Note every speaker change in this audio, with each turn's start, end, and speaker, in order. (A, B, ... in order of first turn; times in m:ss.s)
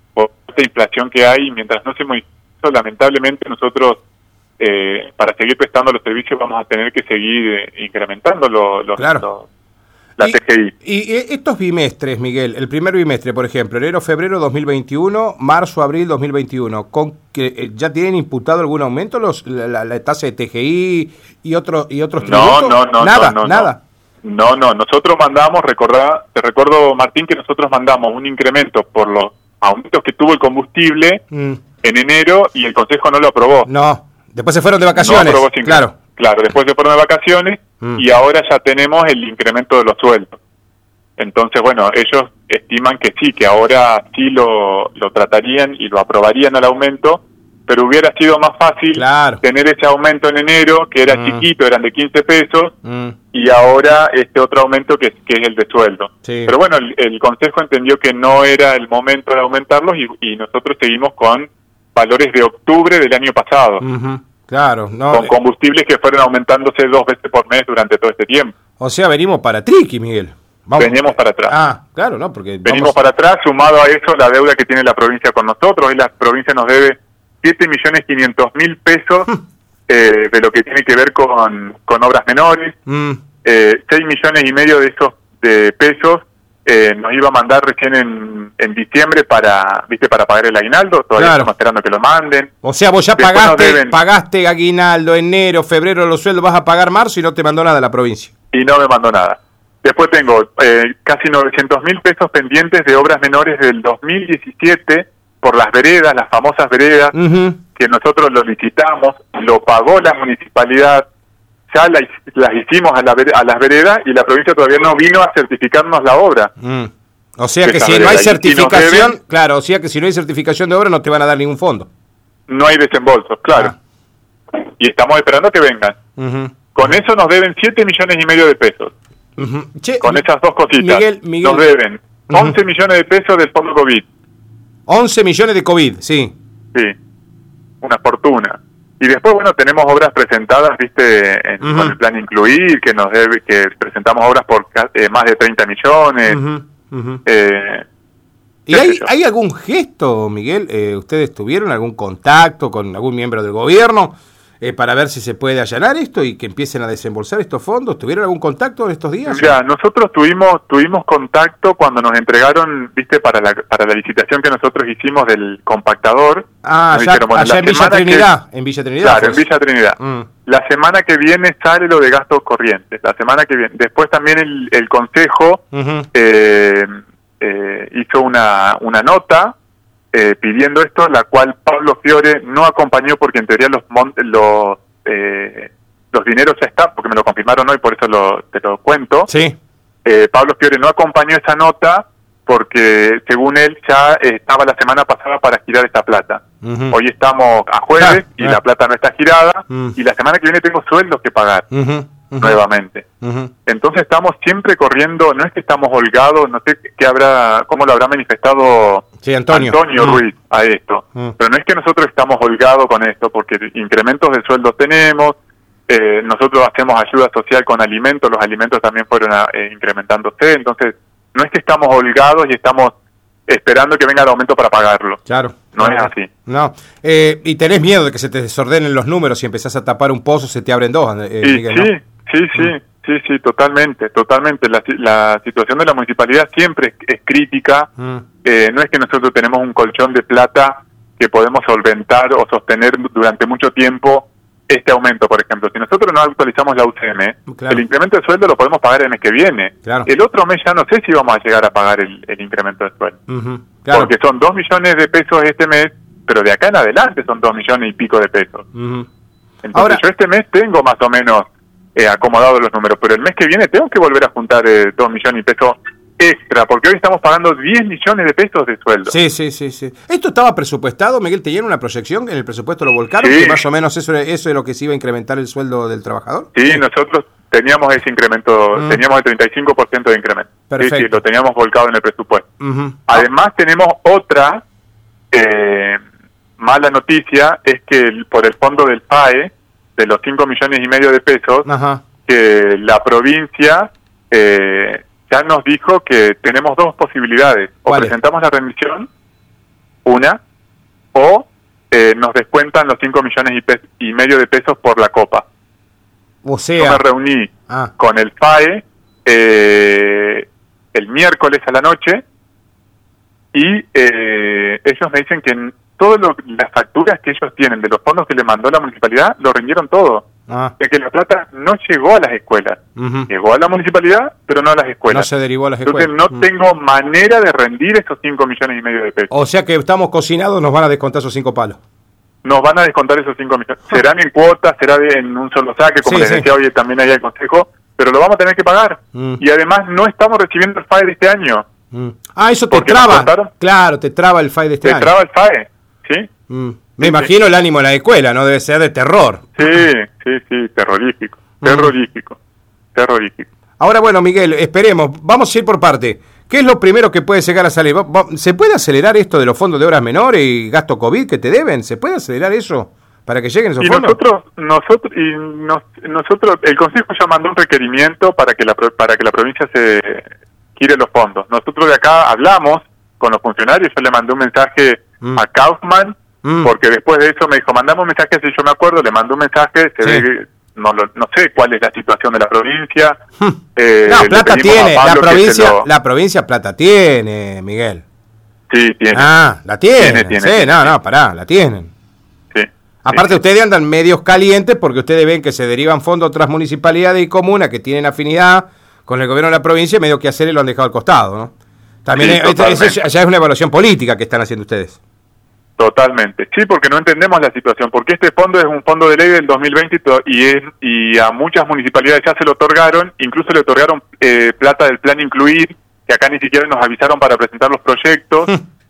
0:00.2-0:04.0 A
0:04.6-0:09.5 A
0:09.0-0:09.2 B
0:10.2-0:10.7 A
0:10.2-0:23.8 B
0:22.2-0:23.7 A
0:24.2-0:31.2 A
0:31.3-0:31.6 B
0:31.8-0:33.7 A
0:33.6-0:35.9 B
0:34.9-0:40.4 A
0:41.2-0:52.7 A
0:48.9-0:49.4 B
0:51.1-0:51.4 B
0:52.8-0:53.1 B
0:53.3-1:03.8 A
0:56.2-0:56.5 B
1:03.8-1:05.3 B
1:05.1-1:08.5 A
1:08.8-1:13.0 B
1:10.8-1:11.5 A
1:12.6-1:19.3 A
1:19.9-1:22.8 A
1:22.9-1:23.2 B
1:23.4-1:32.5 A
1:31.2-1:31.5 B
1:32.6-1:38.3 B
1:33.2-1:34.0 A
1:38.5-1:47.2 A
1:47.1-1:47.6 B
1:47.8-1:51.1 A
1:51.7-1:56.5 A
1:56.6-2:01.9 B
1:57.6-1:59.2 A
2:02.5-2:03.7 A
2:04.6-2:06.0 A
2:06.2-2:06.5 B
2:06.7-2:08.9 A
2:09.4-2:10.2 B
2:10.0-2:14.0 A
2:10.7-2:11.6 B
2:14.9-2:16.3 B
2:17.8-2:26.4 A
2:21.6-2:21.9 B
2:26.3-2:27.2 B
2:27.2-2:27.8 A
2:28.7-2:39.6 B
2:28.7-2:29.1 A
2:39.2-2:48.3 A
2:46.6-2:49.4 B
2:49.0-2:59.5 A
2:50.0-2:50.3 B
2:55.7-2:56.1 B
3:00.1-3:09.3 A
3:09.3-3:09.5 B
3:10.0-3:21.7 A
3:16.6-3:16.9 B
3:18.0-3:18.6 B
3:21.7-3:22.6 B
3:22.4-3:23.0 A
3:23.2-3:23.5 B
3:23.6-3:35.4 A
3:29.2-3:30.2 B
3:35.9-3:42.9 A
3:43.5-3:45.2 A
3:45.3-3:51.9 B
3:45.7-3:46.3 A
3:51.4-3:57.9 A
3:58.0-3:58.2 B
3:58.4-4:13.2 A
4:07.5-4:07.8 B
4:13.3-4:14.1 B
4:13.9-4:18.6 A
4:18.7-4:19.1 B
4:19.6-4:29.1 A
4:19.7-4:20.0 B
4:29.1-4:36.8 B
4:33.2-4:33.6 A
4:36.5-4:42.5 A
4:40.7-4:41.2 B
4:42.6-4:43.2 B
4:43.1-4:44.6 A
4:45.3-4:46.0 A
4:46.6-4:51.7 A
4:51.6-4:52.0 B
4:52.2-4:59.1 A
4:57.9-4:58.1 B
5:00.0-5:00.4 A
5:01.1-5:05.4 A
5:06.4-5:07.0 B
5:06.8-5:12.2 A
5:13.5-5:20.2 A
5:20.5-5:20.7 B
5:20.8-5:25.3 A
5:23.0-5:23.3 B
5:25.1-5:26.4 B
5:25.8-5:29.3 A
5:29.3-5:31.8 B
5:32.4-5:41.6 A
5:36.0-5:36.5 B
5:39.1-5:39.4 B
5:41.9-5:45.1 B
5:42.7-5:43.5 A
5:44.8-5:46.3 A
5:46.5-5:49.8 B
5:47.0-5:47.3 A
5:49.6-5:52.4 A
5:51.6-5:51.9 B
5:52.9-5:53.5 A
5:53.8-6:04.2 B
6:03.8-6:23.2 A
6:16.4-6:16.7 B
6:23.4-6:28.0 B
6:23.8-6:25.8 A
6:28.7-6:29.3 A
6:29.1-6:31.9 B
6:30.0-6:30.9 A
6:32.5-6:33.4 A
6:33.0-6:41.5 B
6:42.0-6:45.0 B
6:42.2-6:43.0 A
6:45.8-6:58.5 A